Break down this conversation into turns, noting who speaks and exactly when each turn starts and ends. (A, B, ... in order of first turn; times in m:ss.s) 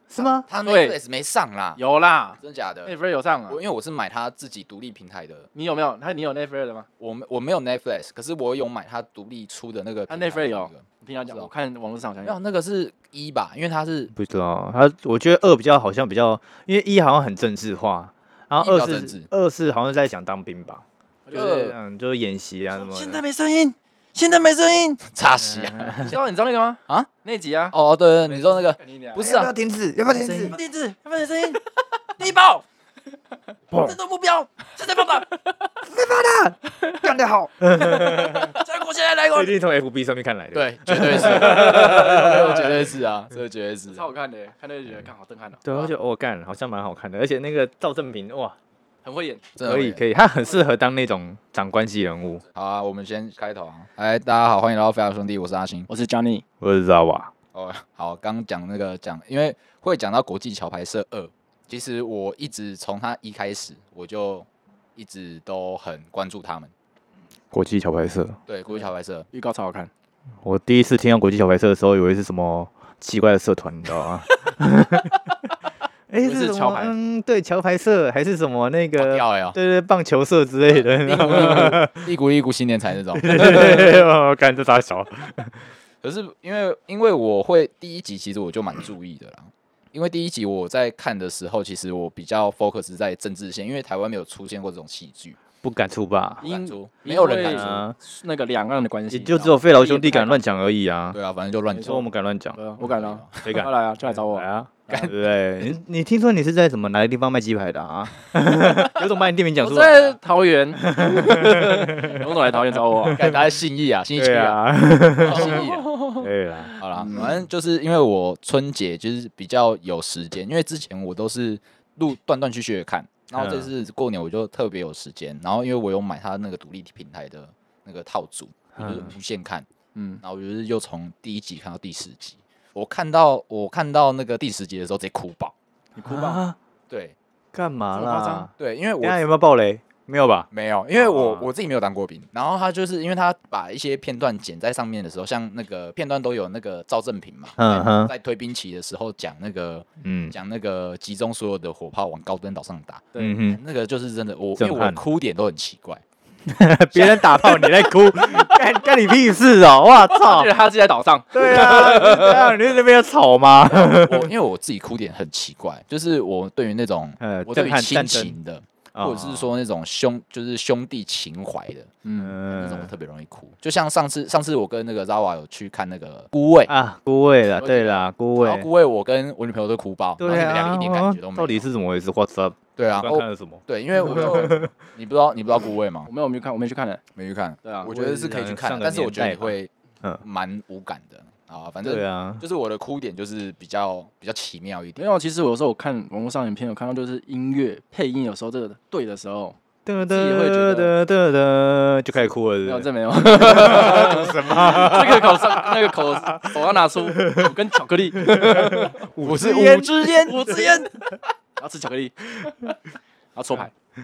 0:00.1-0:00.5 A
0:00.5-0:01.8 B
0:00.6-0:01.0 C
0:01.8-0:03.6 C
0:02.4-0:02.9 B
0:03.5-0:05.5 B
0:05.6-0:06.9 C
0:07.0-0:11.5 B
0:10.1-0:12.4 C
0:12.2-0:14.1 B
0:14.1-0:23.2 A
0:18.6-0:19.3 B
0:21.3-0:21.8 C
0:22.7-0:25.0 C
0:25.1-0:26.2 B
0:25.5-0:26.1 A
0:26.0-0:27.8 C
0:27.7-0:29.5 B
0:28.3-0:29.3 C
0:29.2-0:30.6 A
0:30.2-0:31.6 C
0:32.2-0:32.6 C
0:33.7-0:35.7 C
0:35.9-0:38.6 A
0:36.8-0:37.1 C
0:37.8-0:39.5 C
0:39.3-0:42.8 A
0:40.5-0:44.0 B
0:43.9-0:45.9 C
0:45.6-0:48.6 A
0:49.0-0:49.4 C
0:49.6-0:50.0 B
0:49.6-0:52.4 A
0:52.6-0:55.9 B
0:55.9-0:56.4 C
0:56.6-0:57.3 A
0:57.5-1:06.7 B
1:07.5-1:08.4 A
1:08.5-1:09.3 B
1:08.8-1:09.9 C
1:10.4-1:15.2 A
1:16.1-1:22.1 A
1:16.2-1:16.9 C
1:19.0-1:19.6 B
1:21.0-1:24.0 B
1:23.2-1:25.6 A
1:26.0-1:35.4 B
1:35.6-1:36.4 A
1:36.4-1:40.5 C
1:36.4-1:37.8 B
1:37.4-1:38.0 A
1:39.1-1:41.2 A
1:41.1-1:42.0 B
1:41.7-1:44.5 C
1:41.8-1:42.6 A
1:42.8-1:43.4 B
1:43.4-1:50.2 A
1:49.6-1:53.3 C
1:50.8-1:53.4 A
1:53.2-1:54.6 B
1:54.2-1:57.3 A
1:55.2-1:55.9 B
1:55.3-1:56.3 C
1:56.8-2:09.7 B
2:03.4-2:03.7 A
2:08.8-2:09.1 A
2:10.0-2:10.2 C
2:10.2-2:15.6 B
2:16.0-2:16.4 C
2:16.0-2:16.6 A
2:16.9-2:17.2 B
2:17.5-2:21.5 A
2:18.0-2:18.5 C
2:18.6-2:19.2 B
2:20.5-2:36.0 B
2:27.6-2:28.1 A
2:30.0-2:30.4 A
2:33.2-2:33.6 A
2:34.6-2:35.0 A
2:36.5-2:40.5 A
2:37.0-2:37.7 C
2:40.1-2:42.5 C
2:41.3-2:44.3 A
2:43.7-2:52.0 B
2:47.2-2:48.4 A
2:49.0-2:49.5 A
2:52.0-2:52.4 C
2:52.2-2:52.9 A
2:52.5-2:56.7 B
2:56.7-2:58.7 A
2:57.6-2:58.1 C
2:58.4-3:01.7 B
3:00.2-3:04.7 A
3:02.8-3:06.1 B
3:04.0-3:04.3 C
3:06.1-3:07.0 C
3:07.2-3:09.7 B
3:07.6-3:07.9 C
3:07.8-3:10.2 A
3:10.2-3:15.0 B
3:11.8-3:12.4 A
3:15.0-3:20.9 C
3:19.8-3:27.6 A
3:22.2-3:29.0 C
3:23.4-3:24.9 B
3:28.2-3:30.7 A
3:29.2-3:30.6 B
3:30.2-3:31.0 C
3:31.6-3:32.8 C
3:33.4-3:33.7 C